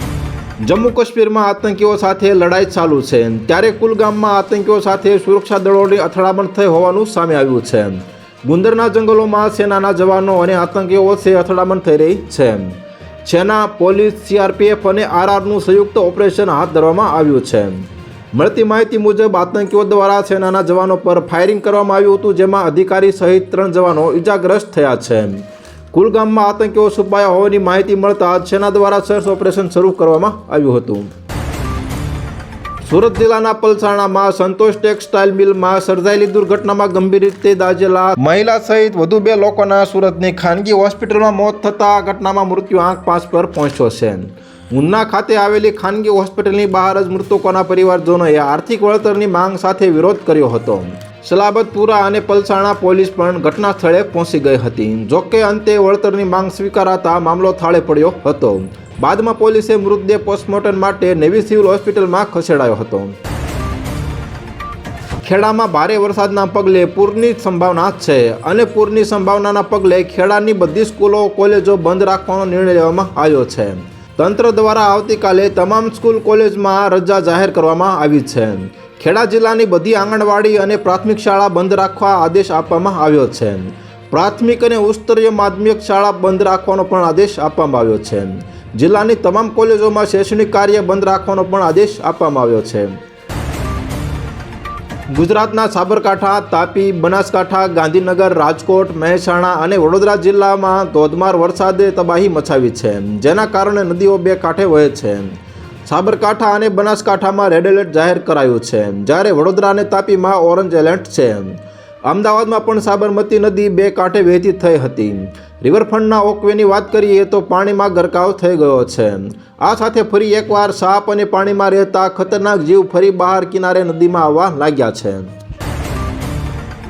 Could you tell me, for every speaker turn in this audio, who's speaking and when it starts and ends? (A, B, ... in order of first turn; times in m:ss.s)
0:00.6-0:31.1 A
0:32.8-1:03.2 A
1:05.2-1:33.0 A
1:35.1-2:05.3 A